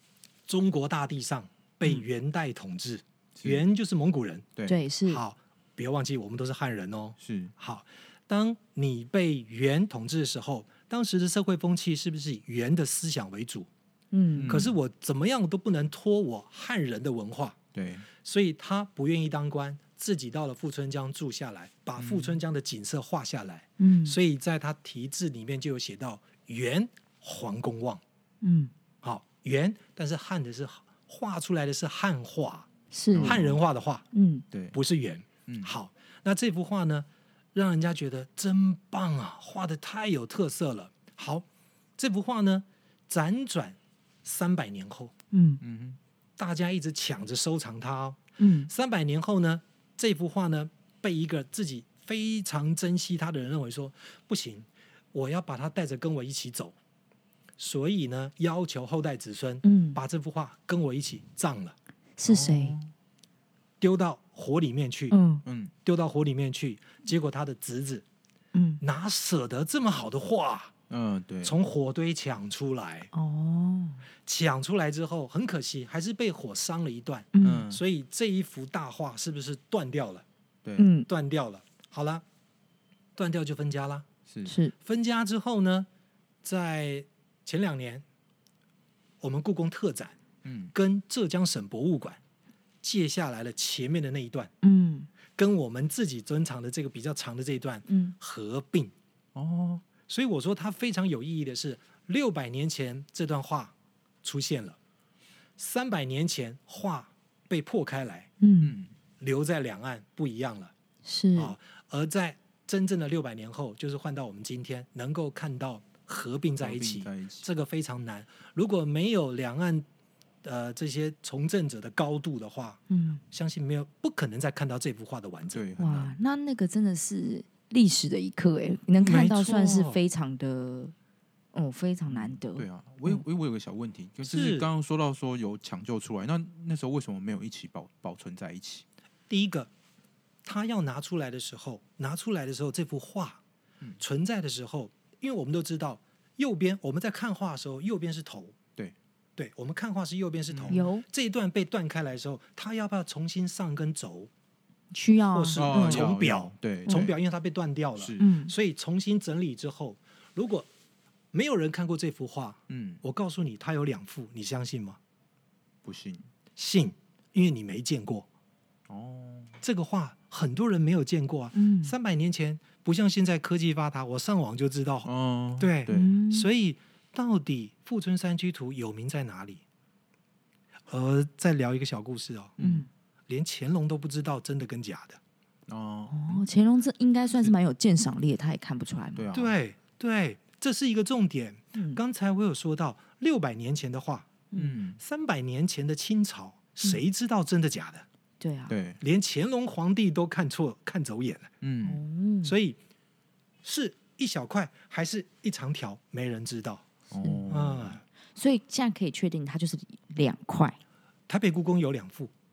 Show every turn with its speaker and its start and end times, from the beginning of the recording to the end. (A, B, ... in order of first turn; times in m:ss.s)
0:00.5-0:04.5 A
0:03.4-0:03.6 B
0:04.6-0:05.2 C
0:05.1-0:13.7 A
0:07.2-0:07.5 B
0:14.1-0:14.6 C
0:14.4-0:14.7 B
0:14.5-0:17.6 A
0:17.7-0:18.1 B
0:18.2-0:28.0 A
0:22.0-0:22.3 B
0:23.8-0:24.2 C
0:28.4-0:28.7 C
0:29.0-0:32.7 A
0:32.9-0:33.4 C
0:33.1-0:33.6 B
0:33.2-0:34.0 A
0:34.1-0:34.4 C
0:34.5-0:34.8 B
0:34.7-0:41.4 A
0:35.5-0:35.7 B
0:42.0-0:45.1 A
0:45.3-0:45.6 C
0:45.6-0:46.0 B
0:46.4-0:56.7 A
0:48.4-0:48.7 C
0:57.6-1:01.7 A
0:59.6-1:00.0 C
1:02.2-1:02.8 C
1:02.2-1:02.9 B
1:03.8-1:05.1 A
1:05.1-1:05.4 C
1:05.4-1:05.7 B
1:05.8-1:08.0 A
1:08.5-1:08.8 C
1:08.8-1:10.7 A
1:10.9-1:11.5 B
1:11.4-1:13.1 A
1:13.1-1:14.0 C
1:14.2-1:20.2 A
1:17.3-1:17.7 C
1:17.4-1:17.8 B
1:20.6-1:20.9 B
1:20.8-1:21.1 C
1:21.1-1:22.2 A
1:23.2-1:24.1 A
1:24.3-1:24.5 B
1:24.4-1:24.7 C
1:24.8-1:25.9 A
1:26.4-1:28.0 A
1:29.2-1:30.2 A
1:30.4-1:30.7 B
1:30.7-1:32.2 A
1:32.8-1:34.5 A
1:34.6-1:35.1 C
1:35.4-1:38.9 A
1:37.9-1:38.1 C
1:39.3-1:39.8 B
1:40.0-1:44.8 A
1:45.6-1:48.3 A
1:48.4-1:48.7 C
1:48.6-1:48.9 B
1:49.2-1:50.7 A
1:51.0-1:51.5 C
1:51.4-1:59.8 A
1:56.6-1:57.4 B
2:00.4-2:05.6 A
2:02.9-2:03.2 C
2:05.5-2:06.2 B
2:05.8-2:10.9 C
2:09.0-2:10.0 A
2:11.5-2:13.2 C
2:12.1-2:18.8 B
2:14.2-2:14.7 A
2:19.3-2:19.7 A
2:20.4-2:23.4 A
2:24.0-2:28.6 A
2:29.4-2:34.3 A
2:30.5-2:30.8 B
2:30.7-2:31.0 C
2:34.9-2:36.1 C
2:35.3-2:40.7 A
2:35.6-2:37.1 B
2:38.0-2:38.3 B
2:38.2-2:38.5 C
2:41.3-2:45.0 A
2:42.7-2:43.0 B
2:45.8-2:46.2 B
2:46.6-2:48.3 A
2:48.9-2:49.6 B
2:49.6-2:59.6 A
2:51.5-2:51.9 C
2:55.0-2:56.1 B
2:55.9-2:56.5 C
3:00.9-3:02.5 A
3:02.6-3:02.8 B
3:02.6-3:02.9 C
3:03.3-3:05.2 A
3:05.7-3:06.4 B
3:06.1-3:09.2 C
3:09.2-3:09.5 B
3:09.3-3:14.3 A
3:11.7-3:12.0 C
3:14.5-3:14.8 C
3:14.6-3:15.0 B
3:15.0-3:18.0 A
3:18.4-3:18.7 C
3:18.7-3:19.0 B
3:19.0-3:21.5 A
3:21.6-3:22.0 B
3:21.8-3:22.5 C
3:22.4-3:22.8 A
3:23.6-3:26.9 A
3:27.1-3:28.0 B
3:27.5-3:28.0 A
3:28.4-3:30.8 C
3:31.3-3:32.3 A